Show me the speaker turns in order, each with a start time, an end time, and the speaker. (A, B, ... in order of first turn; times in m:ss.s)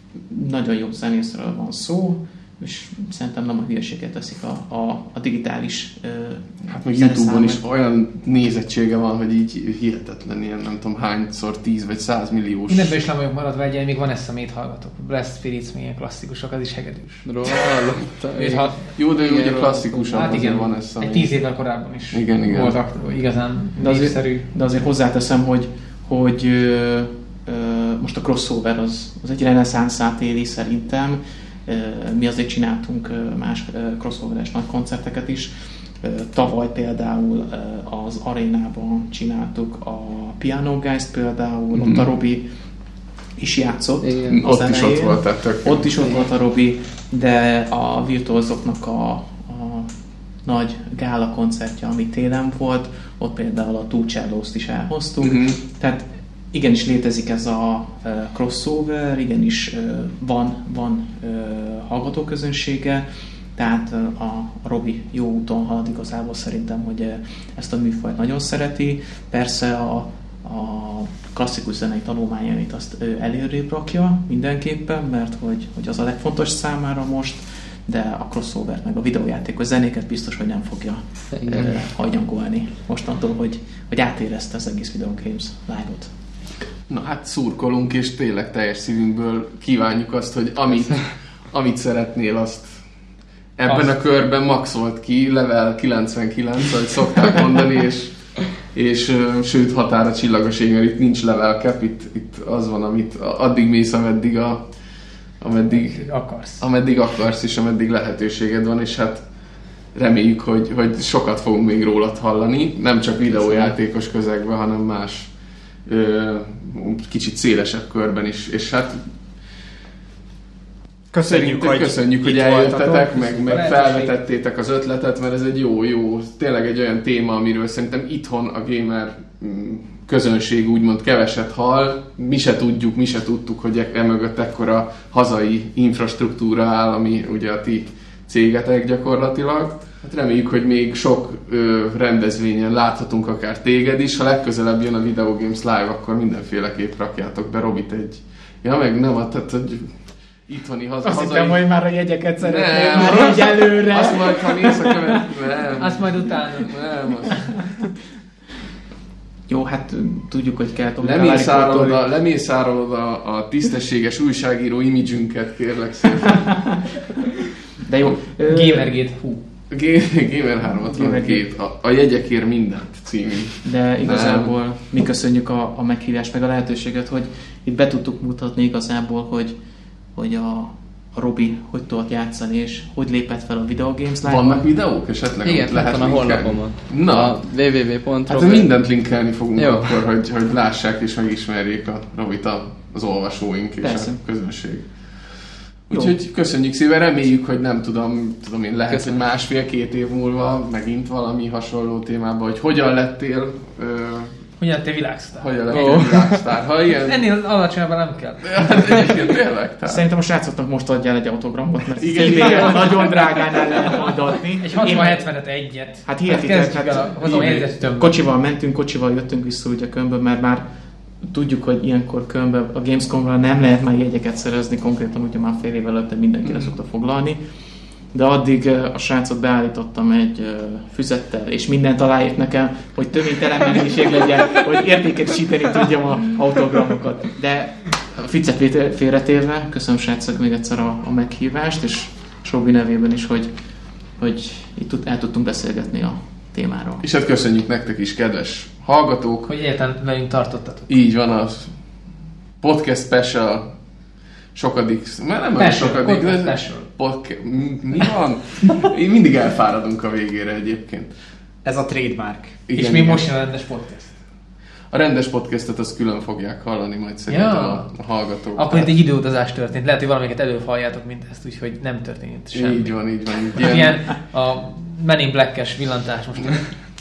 0:00.3-0:07.6 A
0:06.7-0:13.0 B
0:12.7-0:17.7 C
0:17.3-0:20.4 D
0:18.4-0:18.8 C
0:19.0-0:21.3 B
0:20.1-0:24.5 C
0:22.1-0:22.8 B
0:23.8-0:42.4 A
0:41.7-0:42.1 B
0:43.4-0:49.9 A
0:44.0-0:44.4 D
0:44.3-0:45.9 B
0:50.4-1:26.1 A
0:55.2-0:55.6 B
1:21.4-1:21.8 D
1:26.9-1:32.8 B
1:33.6-1:44.6 B
1:33.7-1:34.0 C
1:45.4-1:49.2 B
1:45.7-1:46.6 C
1:50.0-1:55.3 B
1:55.9-1:59.0 B
2:01.1-2:03.4 E
2:01.2-2:31.6 B
2:03.3-2:04.1 C
2:31.0-2:35.4 A
2:32.4-2:37.5 B
2:35.8-2:37.5 C
2:39.5-2:42.0 A
2:41.0-2:46.6 B
2:47.8-2:48.9 A
2:48.4-2:49.4 C
2:49.7-2:54.6 B
2:50.8-2:51.4 A
2:53.6-2:59.6 A
3:00.1-3:04.6 A
3:04.2-3:07.4 B
3:05.4-3:08.8 D
3:08.3-3:24.4 B
3:09.6-3:10.0 D
3:13.8-3:14.2 A
3:18.9-3:19.2 D
3:24.6-3:26.1 C
3:25.4-3:27.2 B
3:25.7-3:26.4 D
3:27.0-3:29.1 C
3:28.4-3:30.0 B
3:29.8-3:35.2 A
3:32.0-3:34.1 B
3:34.6-3:38.2 C
3:36.1-3:40.6 A
3:37.2-3:37.7 B
3:41.2-3:47.4 A
3:46.4-3:46.7 B
3:48.1-4:03.5 A
4:04.2-4:07.0 A
4:07.0-4:09.5 B
4:09.5-4:10.9 C
4:10.9-4:11.8 B
4:12.6-4:13.8 B
4:14.6-4:21.1 B
4:15.6-4:16.9 C
4:21.6-4:22.6 E
4:22.7-4:23.3 B
4:22.7-4:24.1 C
4:24.9-4:28.9 B
4:27.3-4:36.8 C
4:32.5-4:34.0 B